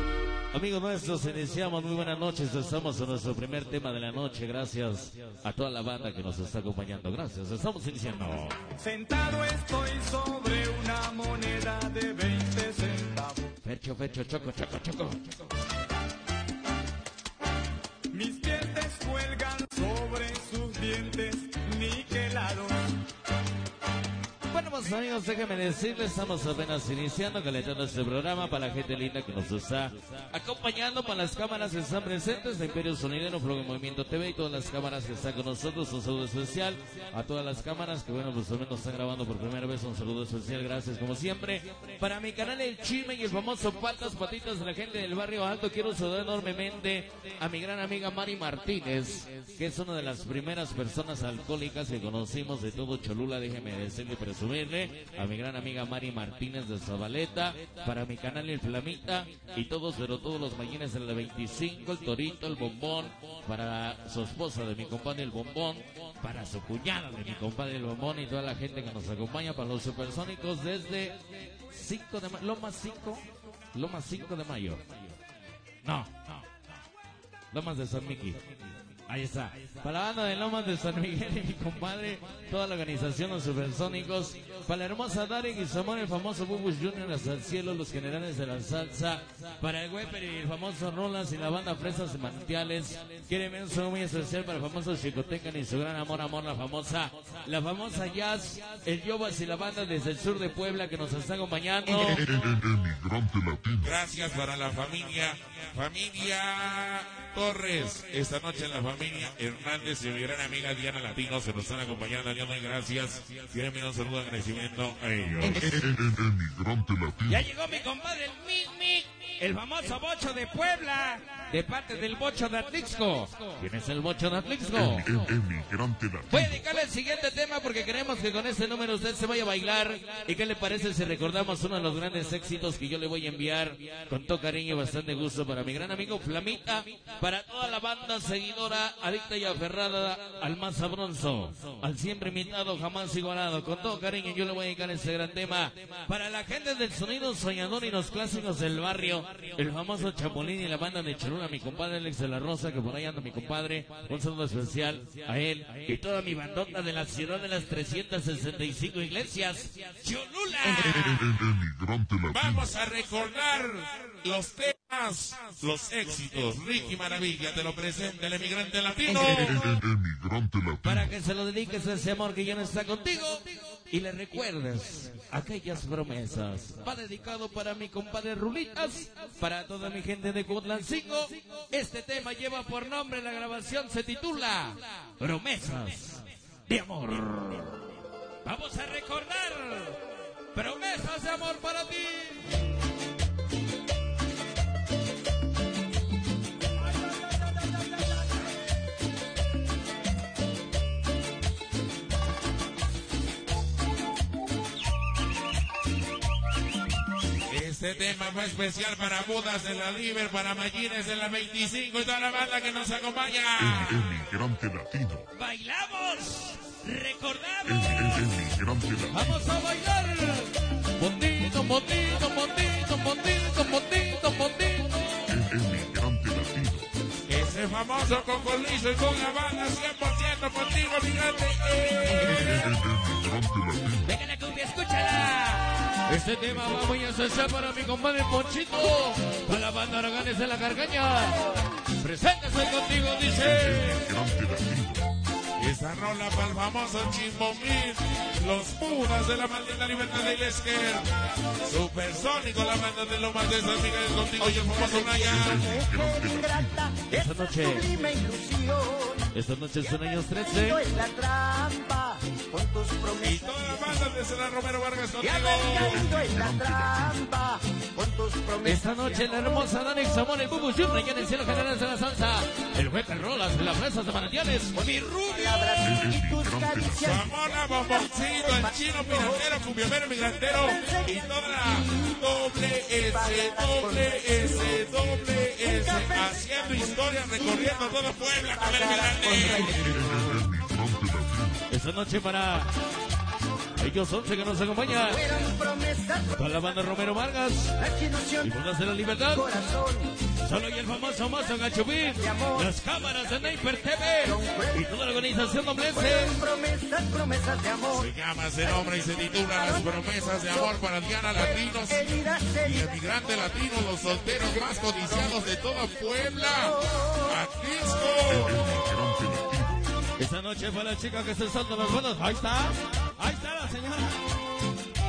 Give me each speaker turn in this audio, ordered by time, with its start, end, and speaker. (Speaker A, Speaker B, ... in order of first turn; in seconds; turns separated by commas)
Speaker A: 0.5-8.6, Speaker B: 8.8-13.4, Speaker A: 13.6-15.4, Speaker B: 18.1-22.8, Speaker A: 24.5-71.2, Speaker A: 71.7-75.1, Speaker A: 75.8-76.5, Speaker A: 77.5-78.4, Speaker A: 79.1-102.2, Speaker C: 101.9-103.9, Speaker D: 103.8-115.6, Speaker C: 115.4-117.5, Speaker A: 117.3-125.0, Speaker C: 124.7-126.6, Speaker A: 126.3-161.2, Speaker C: 160.6-162.7, Speaker D: 162.3-169.5, Speaker C: 169.1-171.1, Speaker A: 170.8-187.7, Speaker A: 188.4-190.0, Speaker A: 190.5-192.4, Speaker D: 207.5-214.1, Speaker C: 213.6-215.3, Speaker A: 215.3-218.3, Speaker C: 217.7-219.5, Speaker A: 219.1-225.1, Speaker C: 225.3-226.9, Speaker D: 227.3-232.7, Speaker C: 232.1-234.1, Speaker A: 234.0-244.0, Speaker C: 243.4-245.1, Speaker D: 245.6-251.1, Speaker D: 251.6-255.7, Speaker E: 254.4-259.3, Speaker C: 255.2-256.9, Speaker A: 257.1-257.9, Speaker A: 259.3-260.8, Speaker E: 260.5-264.1, Speaker D: 263.2-266.1, Speaker E: 265.2-269.6, Speaker C: 265.7-267.2, Speaker A: 268.6-275.8, Speaker E: 274.7-277.4, Speaker C: 275.8-277.3, Speaker D: 277.0-289.7, Speaker E: 277.9-279.5, Speaker E: 280.5-282.1, Speaker E: 283.1-285.0, Speaker E: 285.6-289.7, Speaker C: 289.3-291.6, Speaker A: 291.7-292.7, Speaker A: 293.8-295.2, Speaker E: 294.9-296.9, Speaker A: 296.4-297.8, Speaker E: 297.8-298.5, Speaker A: 298.4-299.4, Speaker E: 299.3-300.1, Speaker A: 300.4-306.4, Speaker E: 302.2-302.7, Speaker E: 304.2-304.9, Speaker E: 305.9-308.1, Speaker D: 307.9-318.6, Speaker E: 309.5-310.8, Speaker E: 311.3-313.1, Speaker E: 316.4-317.4, Speaker C: 318.3-319.7, Speaker A: 320.2-324.1